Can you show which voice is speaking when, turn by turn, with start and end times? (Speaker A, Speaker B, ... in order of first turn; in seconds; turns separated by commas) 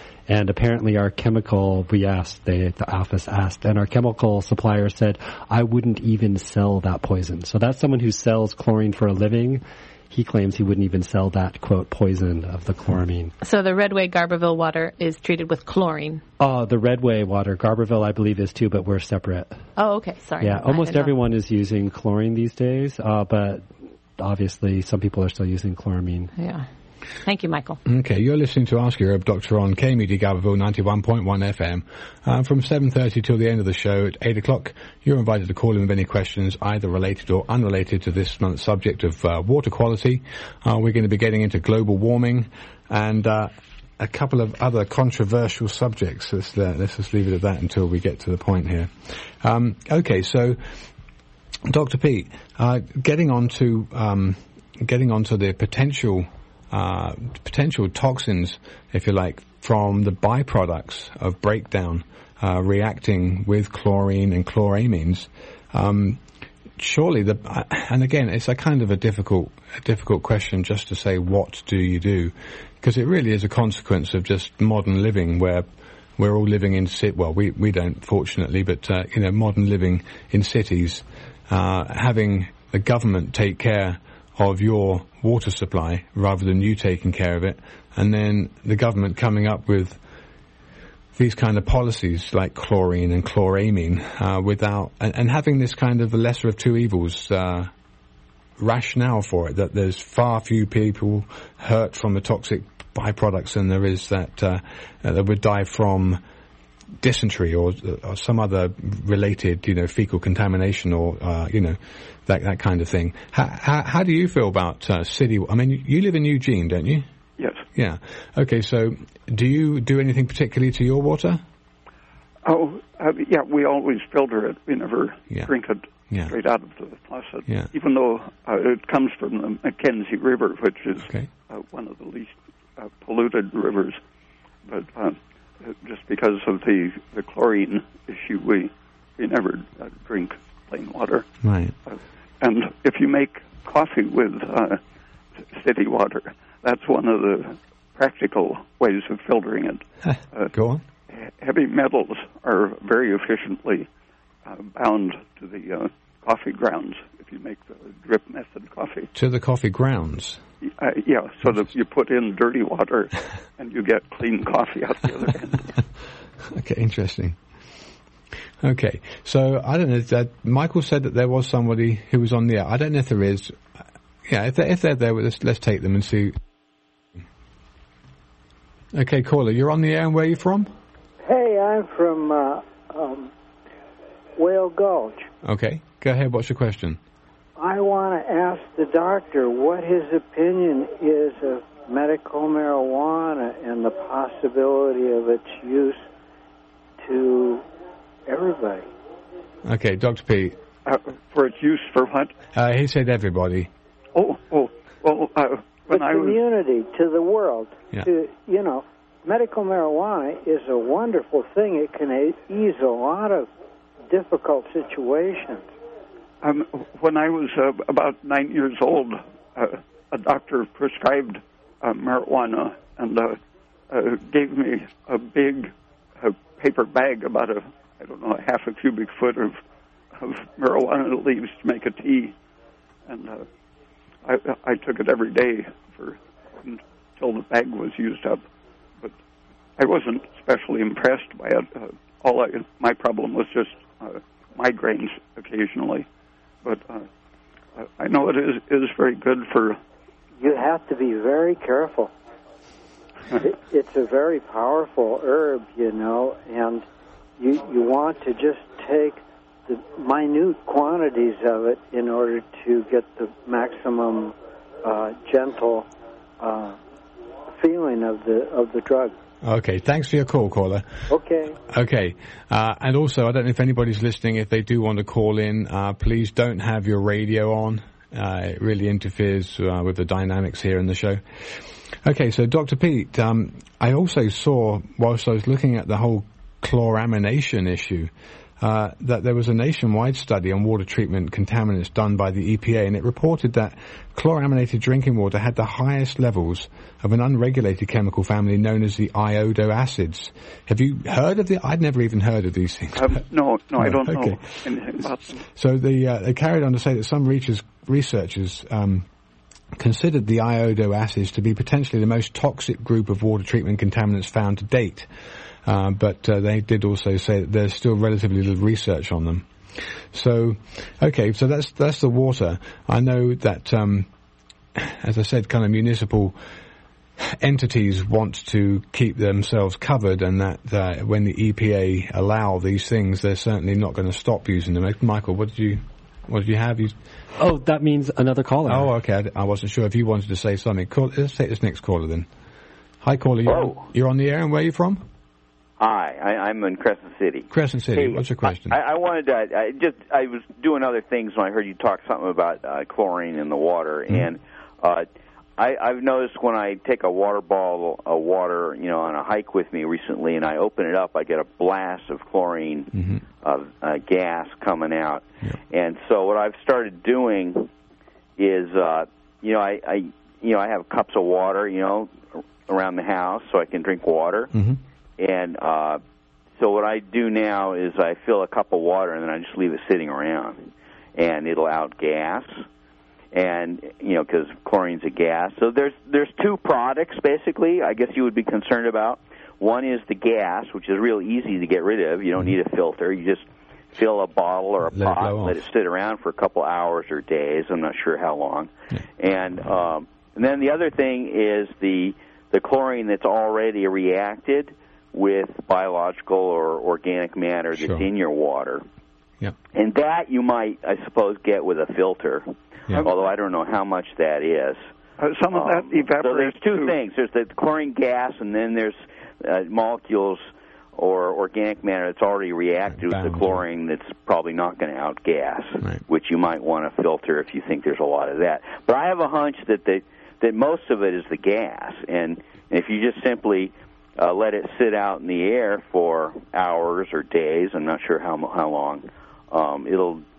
Speaker A: 0.3-13.3, Speaker B: 13.4-16.2, Speaker A: 16.4-19.6, Speaker B: 19.8-21.1, Speaker A: 20.4-26.3, Speaker B: 26.4-26.6, Speaker B: 27.2-27.8, Speaker C: 27.9-50.6, Speaker C: 51.7-66.2, Speaker C: 66.8-75.7, Speaker C: 76.2-90.0, Speaker C: 91.2-97.7, Speaker C: 98.6-106.2, Speaker C: 107.0-117.1, Speaker D: 117.4-117.6, Speaker C: 117.8-121.4, Speaker D: 122.5-134.0, Speaker D: 134.7-141.3, Speaker C: 141.4-141.7, Speaker D: 141.9-144.8, Speaker D: 145.5-150.5, Speaker C: 150.1-150.8, Speaker D: 151.1-153.9, Speaker D: 154.4-159.1, Speaker C: 159.2-160.4, Speaker D: 160.6-165.8, Speaker C: 166.5-167.4, Speaker C: 168.6-173.6, Speaker C: 174.2-176.4, Speaker C: 178.9-180.7, Speaker E: 181.2-183.3, Speaker E: 184.4-185.3, Speaker C: 185.4-187.0, Speaker E: 187.6-196.1, Speaker E: 197.0-197.7, Speaker E: 198.3-198.9, Speaker C: 199.7-200.6, Speaker D: 200.9-202.3, Speaker C: 202.5-203.7, Speaker D: 204.2-206.4, Speaker E: 205.9-213.5, Speaker E: 214.1-215.7, Speaker D: 216.4-223.4, Speaker D: 223.9-229.6, Speaker D: 230.2-232.3, Speaker D: 233.1-233.4, Speaker D: 234.2-238.4, Speaker D: 239.8-246.1, Speaker D: 246.6-247.1, Speaker D: 247.8-249.8, Speaker E: 250.4-252.1, Speaker E: 253.3-256.9, Speaker E: 257.4-265.9, Speaker E: 266.4-266.8, Speaker E: 267.6-269.2, Speaker C: 269.4-270.9, Speaker E: 271.1-271.6, Speaker C: 271.6-303.2, Speaker D: 303.0-305.4, Speaker C: 303.8-304.4, Speaker C: 305.5-309.1, Speaker C: 309.8-315.1, Speaker C: 315.6-324.1, Speaker C: 324.8-326.4, Speaker C: 327.2-337.0, Speaker A: 337.4-338.9, Speaker C: 338.7-342.3, Speaker C: 343.0-345.0, Speaker F: 343.5-343.8, Speaker F: 345.8-355.1, Speaker C: 347.5-348.8, Speaker F: 355.6-367.7, Speaker C: 362.9-363.2, Speaker F: 368.4-374.5, Speaker C: 374.5-374.8, Speaker F: 375.2-376.0, Speaker F: 376.6-382.6, Speaker F: 383.3-408.8, Speaker C: 394.9-395.6, Speaker C: 407.8-408.1, Speaker F: 409.7-414.8, Speaker D: 415.2-416.9, Speaker F: 415.5-420.4, Speaker F: 421.0-440.2, Speaker C: 423.0-423.6